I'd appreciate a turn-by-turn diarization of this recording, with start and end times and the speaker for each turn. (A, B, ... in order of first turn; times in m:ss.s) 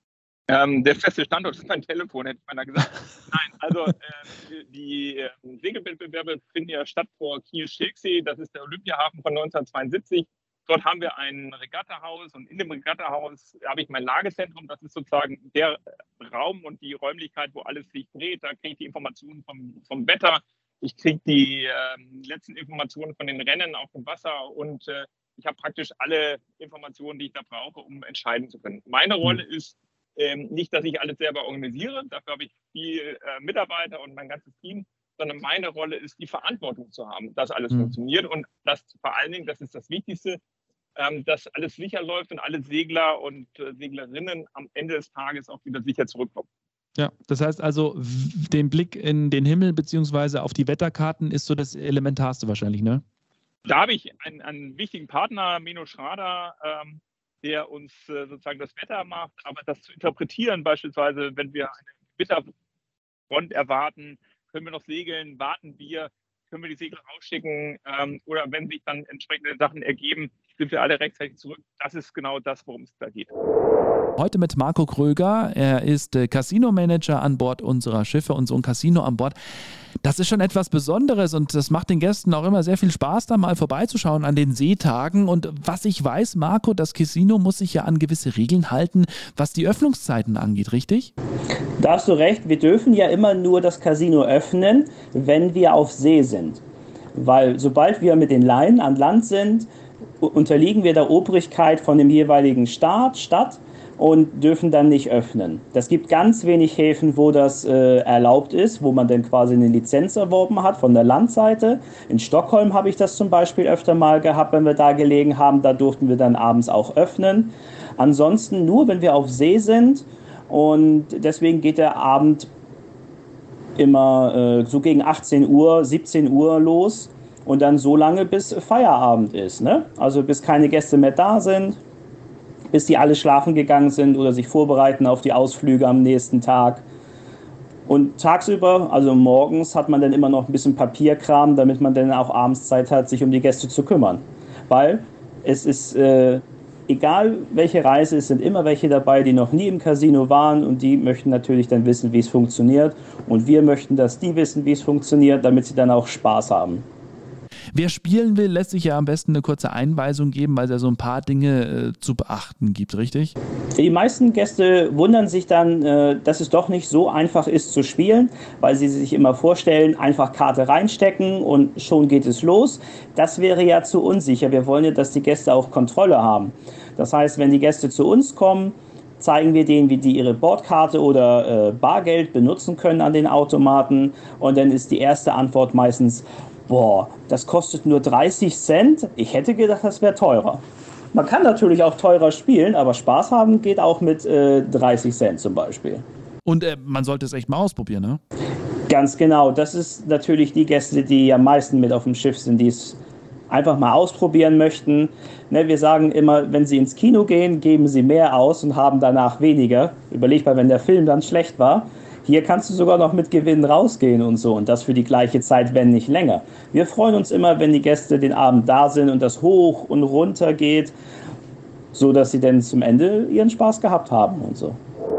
0:00.5-0:40.4 A
0:41.0-0:46.5 A
0:47.0-0:53.0 B
0:53.6-1:02.5 A
1:03.3-1:13.3 A
1:14.2-1:19.4 B
1:20.0-1:31.1 B
1:31.8-1:36.6 C
1:37.2-1:39.7 C
1:40.2-2:02.5 C
2:03.8-2:11.8 C
2:12.7-2:16.8 C
2:17.9-2:36.9 C
2:37.7-2:43.4 B
2:43.8-3:16.0 C
3:16.5-3:18.2 B
3:18.9-3:40.9 C
3:41.9-3:44.8 C